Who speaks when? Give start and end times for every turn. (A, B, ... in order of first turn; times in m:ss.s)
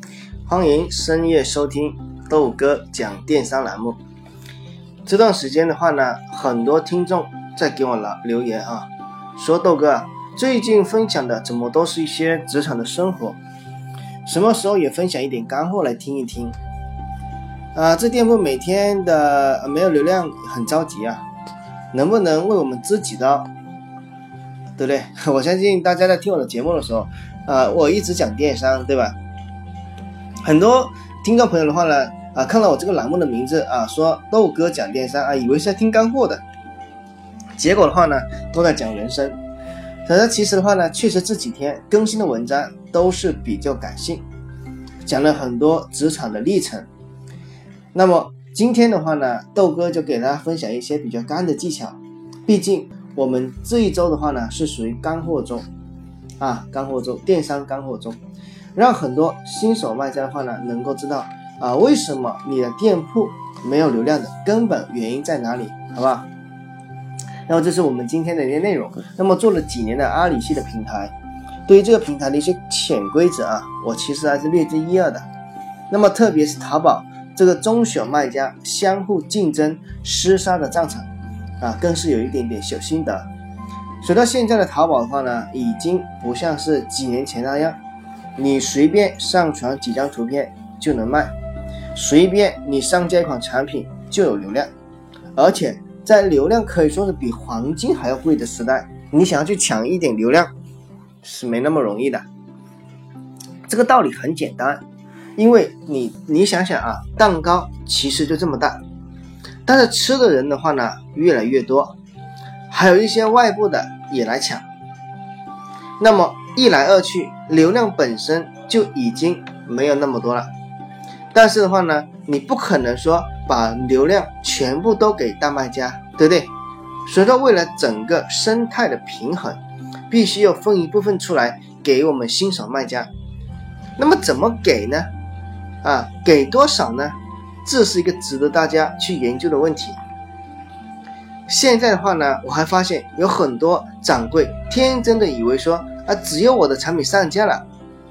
0:00.4-0:04.0 A
0:05.0-0:13.4 A
0:14.2-0:16.6 A
0:17.7-0:21.2 A
0:21.9-0:23.5 A
0:24.8-0:29.1 A
0:30.4-0:36.4 A
0:37.6-0:39.4 A
0:40.0-0:44.2 A
0:45.0-0:46.9 A
0:47.9-0:55.6 A
0:56.4-0:58.2 A
0:58.7-1:06.3 A
1:07.5-1:11.1 A
1:11.7-1:15.2 A
1:15.9-1:21.1 A
1:21.6-1:23.3 A
1:24.0-1:27.8 A
1:28.4-1:31.3 A
1:31.9-1:34.7 A
1:35.4-1:40.5 A
1:41.2-1:42.2 A
1:43.7-1:44.8 A
1:45.4-1:48.8 A
1:49.6-1:51.9 A
1:52.7-1:54.6 A
1:56.0-2:00.5 A
2:01.3-2:06.5 A
2:07.0-2:09.6 A
2:10.1-2:13.1 A
2:14.0-2:15.1 A
2:15.8-2:20.0 A
2:21.5-2:27.6 A